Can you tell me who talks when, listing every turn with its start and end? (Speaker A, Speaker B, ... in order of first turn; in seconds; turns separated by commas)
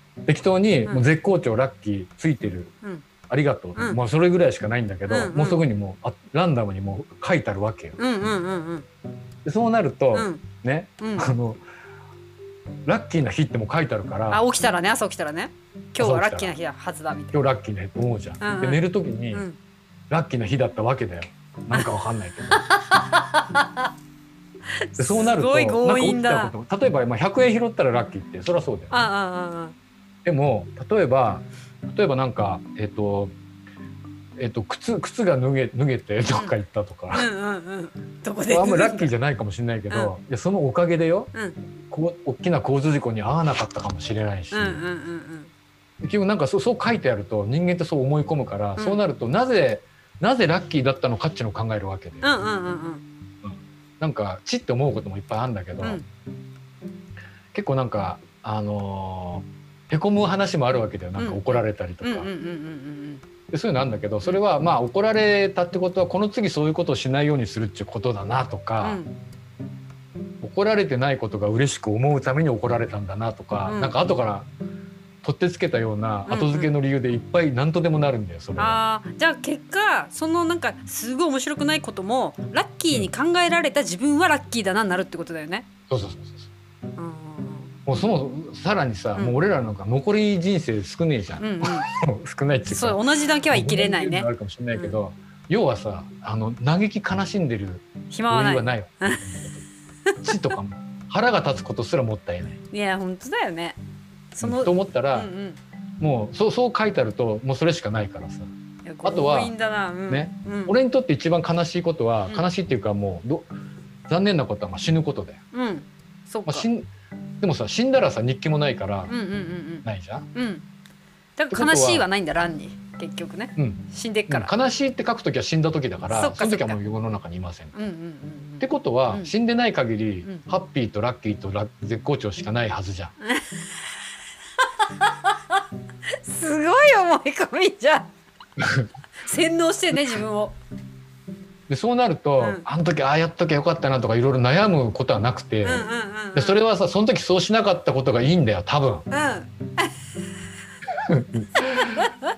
Speaker A: 0.2-2.7, Speaker A: 3.3-8.0, Speaker B: 5.1-5.6, Speaker B: 8.0-8.8, Speaker A: 9.4-11.6, Speaker B: 10.1-10.4, Speaker B: 11.0-11.3, Speaker A: 12.8-14.4, Speaker B: 14.3-17.4, Speaker A: 16.0-16.6, Speaker A: 17.3-19.4, Speaker B: 18.4-18.8, Speaker A: 20.1-22.6, Speaker B: 22.5-23.8, Speaker B: 24.9-26.5, Speaker A: 25.0-29.0, Speaker B: 28.9-29.7, Speaker A: 30.2-33.3, Speaker A: 34.4-37.3, Speaker B: 37.1-39.1, Speaker A: 38.5-41.3, Speaker B: 41.3-41.6, Speaker A: 41.9-44.8, Speaker B: 44.5-45.5, Speaker A: 46.0-52.3, Speaker B: 52.2-53.0, Speaker A: 53.4-56.0, Speaker A: 57.5-62.3, Speaker B: 61.2-63.2, Speaker A: 63.5-69.0, Speaker B: 68.8-69.1, Speaker A: 70.4-74.5, Speaker B: 73.6-74.0, Speaker A: 75.2-78.8, Speaker B: 76.3-76.7, Speaker B: 78.6-85.7, Speaker A: 85.9-86.5, Speaker B: 87.0-87.7, Speaker A: 87.8-99.7, Speaker B: 91.4-91.9, Speaker B: 92.7-95.0, Speaker B: 98.1-99.2, Speaker B: 100.0-100.3, Speaker A: 100.2-102.6, Speaker B: 102.7-103.8, Speaker B: 104.3-105.6, Speaker A: 104.4-105.3, Speaker A: 106.0-108.5, Speaker B: 108.8-110.7, Speaker A: 109.0-109.5, Speaker A: 110.1-113.5, Speaker A: 114.1-115.4, Speaker B: 115.5-116.7, Speaker A: 116.5-116.9, Speaker A: 117.4-119.1, Speaker B: 119.1-120.6, Speaker A: 119.8-120.3, Speaker B: 121.4-124.5, Speaker A: 121.5-122.1, Speaker A: 123.6-127.7, Speaker B: 126.1-126.8, Speaker B: 127.7-129.3, Speaker A: 128.6-133.1, Speaker B: 133.2-133.6, Speaker B: 135.0-135.6, Speaker B: 136.2-138.1, Speaker A: 138.6-138.9, Speaker B: 139.2-140.6, Speaker A: 141.7-149.1, Speaker B: 142.4-142.6, Speaker B: 145.6-146.6, Speaker B: 149.1-149.9, Speaker A: 151.0-152.0, Speaker B: 151.6-152.1